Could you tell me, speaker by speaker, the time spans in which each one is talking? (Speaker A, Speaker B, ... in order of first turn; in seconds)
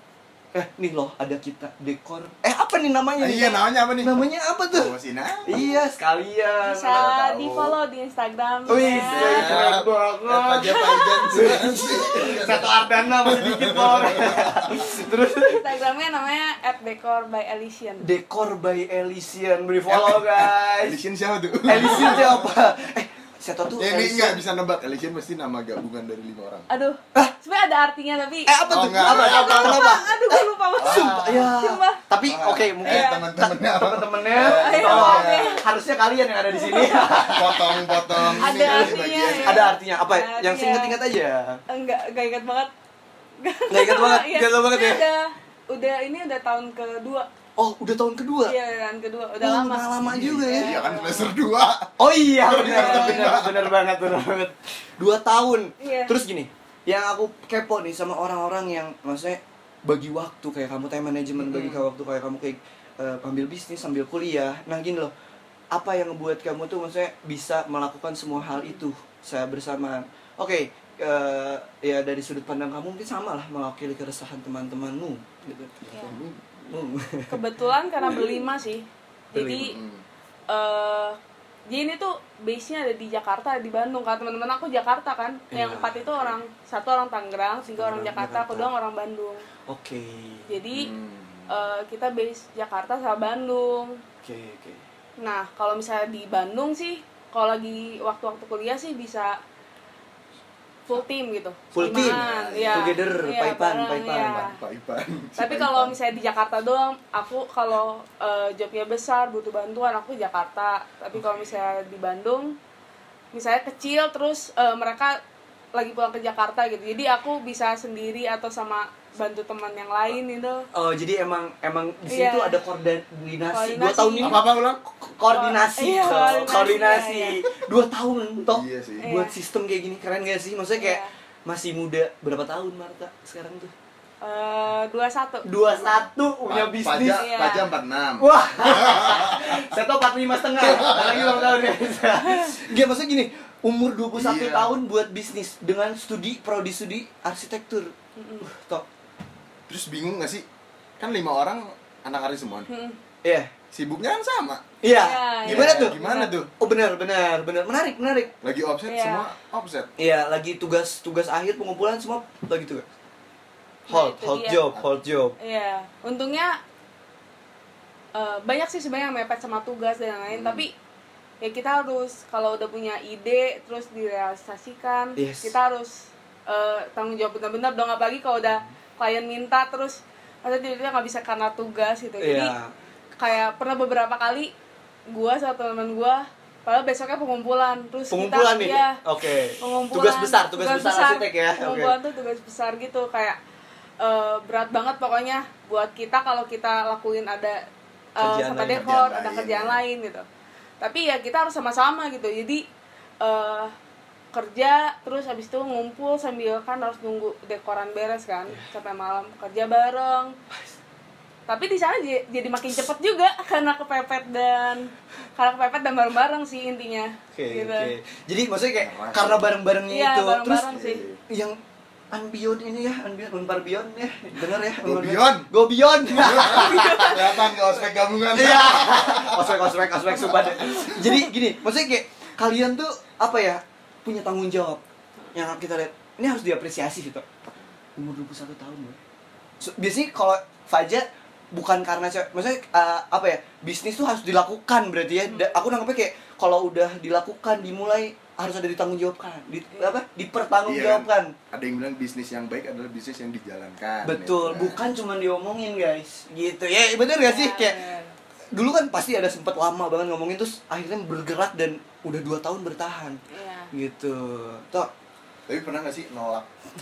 Speaker A: 0.5-4.9, 5.5-7.1, 8.7-15.7, 18.0-21.0, 21.7-24.4, 28.5-41.6, 43.7-45.1, 47.6-48.5, 49.4-50.8, 52.0-65.1, 65.7-76.2, 76.7-77.4, 78.0-78.4, 79.3-79.8, 85.5-86.2, 87.7-88.7, 89.7-90.5, 94.2-94.8, 101.7-104.5, 120.7-133.7, 135.4-137.3, 138.2-148.9, 153.2-153.5, 154.8-156.0, 156.6-158.3, 160.0-162.8, 163.9-165.4, 175.2-175.5, 182.2-182.7, 188.1-191.9, 198.2-198.8, 217.3-220.8, 221.3-221.6, 222.1-227.6, 228.3-234.8, 235.3-237.3, 238.0-239.0, 239.6-251.3, 254.0-257.9, 258.5-263.2, 263.7-264.9
Speaker B: 3.2-5.6, 6.9-7.8, 8.7-14.7, 19.9-22.7, 23.8-26.7, 28.7-30.1, 30.8-31.5, 32.2-35.6, 37.0-39.8, 50.0-53.7, 76.0-76.4, 79.5-80.0, 90.7-91.6, 101.8-103.0, 104.4-106.0, 124.2-124.8, 128.5-129.1, 135.8-139.7, 140.6-141.6, 144.1-144.8, 149.7-150.4, 151.0-152.7, 153.7-154.7, 155.4-156.5, 158.4-159.9, 170.3-170.7, 198.7-199.8, 218.8-219.5, 220.7-221.2, 224.8-225.5, 226.1-229.8, 230.3-230.8, 250.7-254.8, 265.5-266.5
Speaker C: 6.6-9.7, 10.7-11.1, 15.1-18.1, 26.7-32.0, 32.9-33.3, 34.4-35.6, 36.5-37.3, 38.4-41.0, 41.7-42.7, 43.4-47.3, 48.5-49.9, 50.4-51.3, 52.6-53.3, 55.8-56.2, 75.9-76.2, 77.3-79.8, 80.5-81.2, 81.7-89.5, 90.5-90.9, 91.5-94.0, 95.2-99.4, 100.9-104.6, 105.4-112.6, 113.3-115.2, 115.7-120.7, 122.1-122.6, 123.5-124.4, 125.3-127.4, 129.0-129.3, 130.8-131.1, 134.2-135.5, 137.2-137.7, 148.2-148.5, 152.7-153.0, 155.0-156.4, 158.9-159.3, 163.9-164.7, 165.4-166.6, 168.2-170.7, 171.4-182.5, 183.2-184.5, 185.1-189.0, 189.6-193.4, 194.0-200.3, 200.8-202.7, 203.2-203.7, 204.3-210.4, 211.5-217.9, 219.9-221.1, 226.5-227.4, 245.3-245.6, 257.2-258.2, 263.3-263.7